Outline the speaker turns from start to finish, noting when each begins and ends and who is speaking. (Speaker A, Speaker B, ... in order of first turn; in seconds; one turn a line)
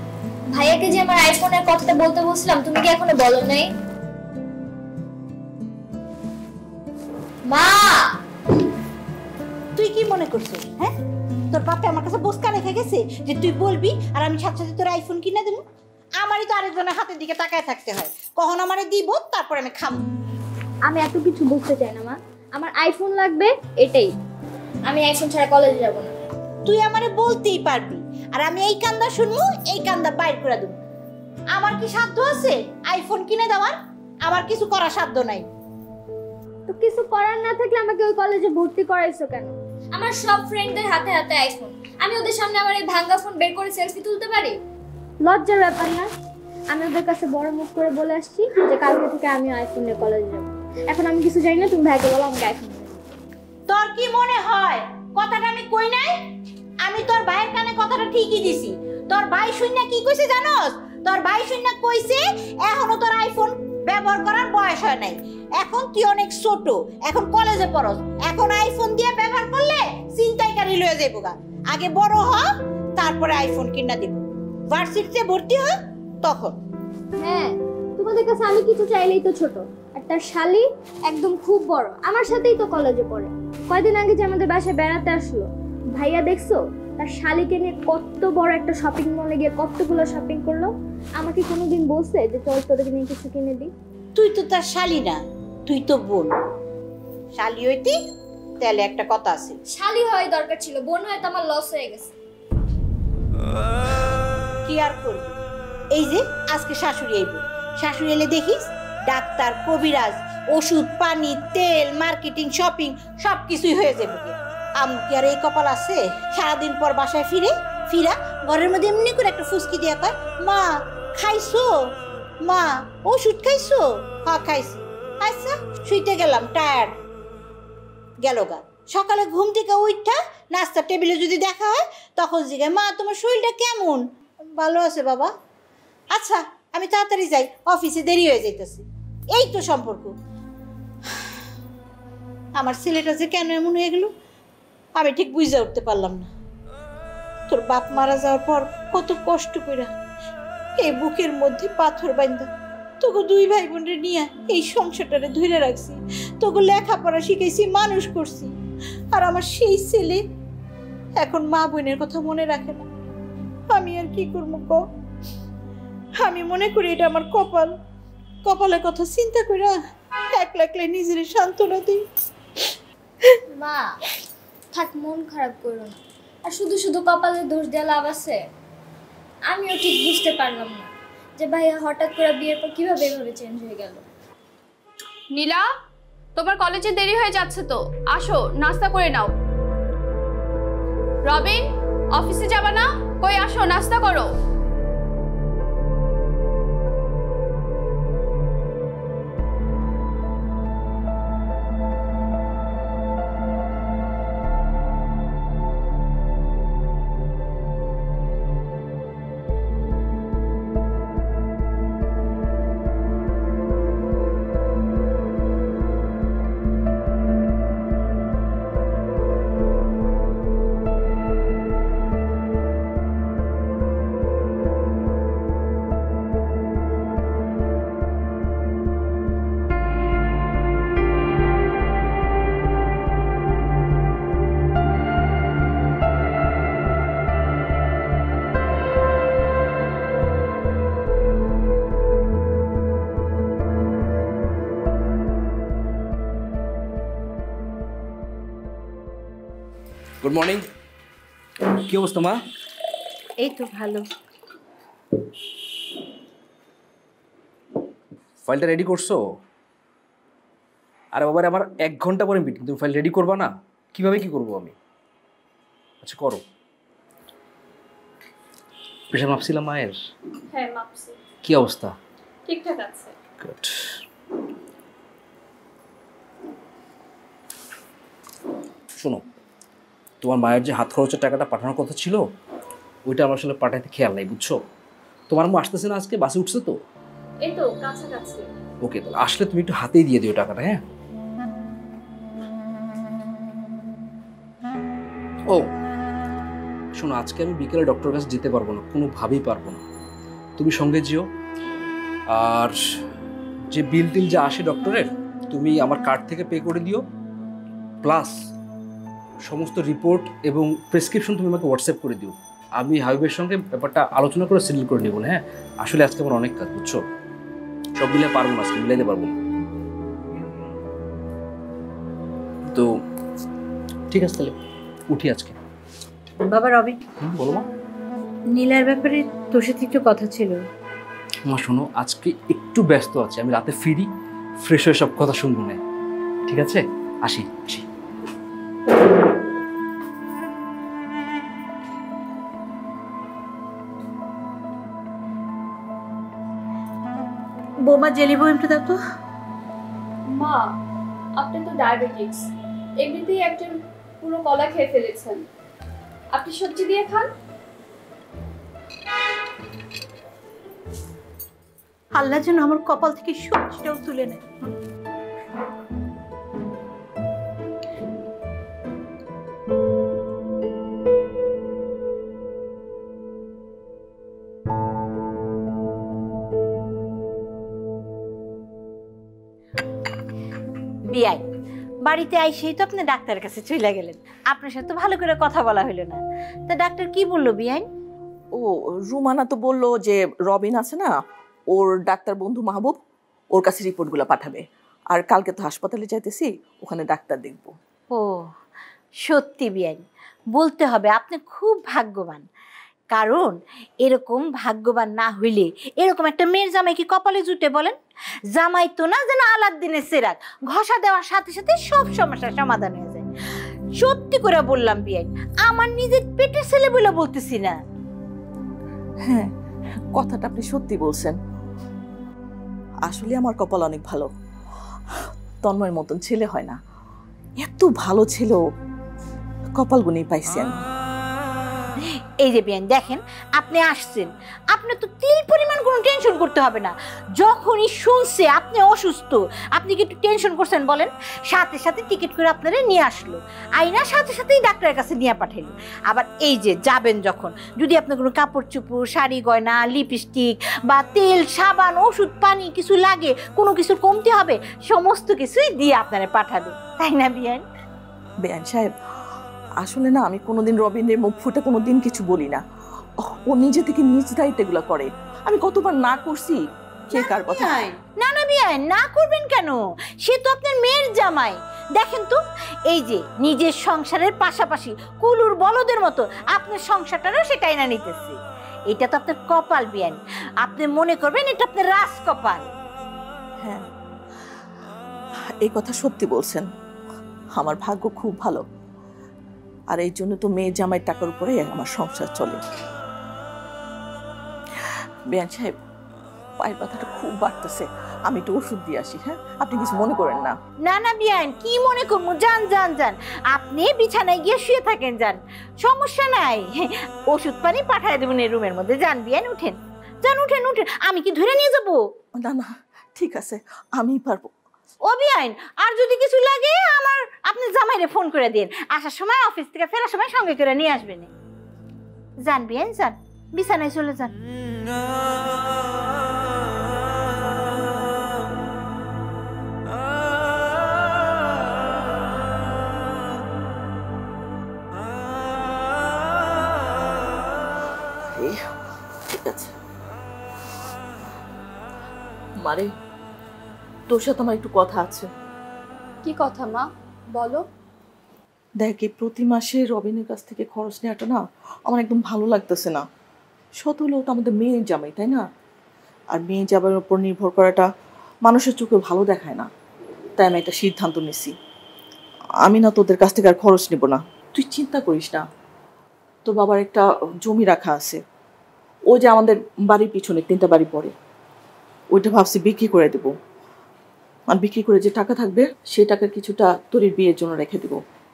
Speaker A: 0.5-3.7
Speaker A: 7.5-8.2
Speaker B: 9.8-10.9
Speaker B: 11.5-15.6
Speaker B: 16.2-20.1
Speaker A: 20.9-24.1
Speaker A: 24.9-26.1
Speaker B: 26.6-30.8
Speaker B: 31.5-35.5
Speaker A: 36.7-44.6
Speaker A: 45.2-46.1
Speaker A: 46.7-53.1
Speaker B: 53.7-56.2
Speaker B: 56.8-75.7
Speaker B: 76.2-76.6
Speaker A: 77.2-93.7
Speaker B: 94.2-96.3
Speaker B: 97.4-98.0
Speaker B: 98.6-99.6
Speaker A: 99.7-102.1
Speaker B: 104.7-105.4
Speaker B: 105.9-121.7
Speaker B: 122.4-127.0
Speaker B: 128.2-134.0
Speaker B: 134.6-135.3
Speaker B: 136.1-140.1
Speaker B: 142.6-144.1
Speaker B: 145.0-146.3
Speaker B: 147.5-149.9
Speaker B: 150.8-152.5
Speaker B: 153.0-158.5
Speaker B: 159.1-160.2
Speaker B: 161.2-162.9
Speaker B: 163.7-164.8
Speaker B: 166.2-167.7
Speaker B: 168.4-169.8
Speaker B: 170.3-172.1
Speaker A: 173.5-174.0
Speaker A: 174.7-178.4
Speaker A: 179.5-184.0
Speaker C: 185.3-185.6
Speaker C: 186.4-189.3
Speaker C: 191.3-191.6
Speaker C: 192.2-194.3
Speaker D: 250.2-250.7
Speaker D: 251.6-252.4
Speaker B: 253.4-254.1
Speaker D: 258.4-259.2
Speaker D: 261.1-264.8
Speaker D: 266.0-266.4
Speaker D: 269.1-270.0
Speaker C: 270.5-271.2
Speaker D: 271.4-271.9
Speaker C: 272.5-273.1
Speaker D: 273.4-274.0
Speaker D: 279.0-279.2
Speaker D: 280.2-282.2
Speaker D: 283.1-284.6
Speaker D: 285.3-286.8
Speaker C: 287.4-288.5
Speaker D: 288.8-290.8
Speaker D: 297.0-299.8
Speaker D: 300.6-301.3
Speaker D: 302.3-302.8
Speaker D: 303.7-307.0
Speaker D: 308.0-308.4
Speaker D: 309.5-317.0
Speaker D: 318.0-319.4
Speaker D: 324.1-324.5
Speaker D: 325.1-325.6
Speaker B: 326.5-327.0
Speaker D: 327.2-327.7
Speaker B: 328.5-330.6
Speaker D: 331.5-334.1
Speaker D: 334.6-335.8
Speaker D: 336.5-337.9
Speaker B: 347.9-349.0
Speaker C: 350.4-350.7
Speaker C: 351.4-352.5
Speaker C: 353.0-355.4
Speaker C: 356.3-357.3
Speaker B: 362.1-364.4
Speaker B: 381.1-381.4
Speaker B: 382.0-387.9
Speaker E: 388.6-391.1
Speaker E: 391.7-393.0
Speaker E: 393.5-397.7
Speaker B: 398.1-398.5
Speaker B: 399.2-400.0
Speaker B: 400.5-402.4
Speaker B: 403.1-408.0
Speaker B: 408.5-413.3
Speaker B: 414.0-417.8
Speaker E: 420.1-421.4
Speaker E: 423.1-424.3
Speaker E: 425.6-426.8
Speaker E: 427.6-428.6
Speaker E: 429.8-430.8
Speaker B: 432.4-457.6
Speaker E: 458.4-458.9
Speaker E: 459.8-462.6
Speaker E: 463.2-467.8
Speaker B: 467.1-472.4
Speaker B: 472.9-478.4
Speaker B: 478.9-482.7
Speaker E: 485.6-486.7
Speaker E: 487.6-488.6
Speaker E: 489.9-492.6
Speaker E: 494.9-495.8
Speaker E: 496.6-500.5
Speaker B: 500.9-512.0
Speaker E: 512.4-514.5
Speaker B: 515.1-521.3
Speaker B: 522.4-524.3
Speaker E: 538.3-538.7
Speaker E: 539.3-539.7
Speaker E: 542.6-542.9
Speaker E: 544.1-545.3
Speaker C: 546.2-547.6
Speaker E: 548.8-553.0
Speaker E: 553.8-555.4
Speaker E: 556.3-557.9
Speaker E: 558.5-559.7
Speaker E: 560.4-561.5
Speaker E: 562.7-565.4
Speaker E: 566.5-568.2
Speaker E: 569.1-571.1
Speaker E: 572.1-573.3
Speaker E: 574.5-578.0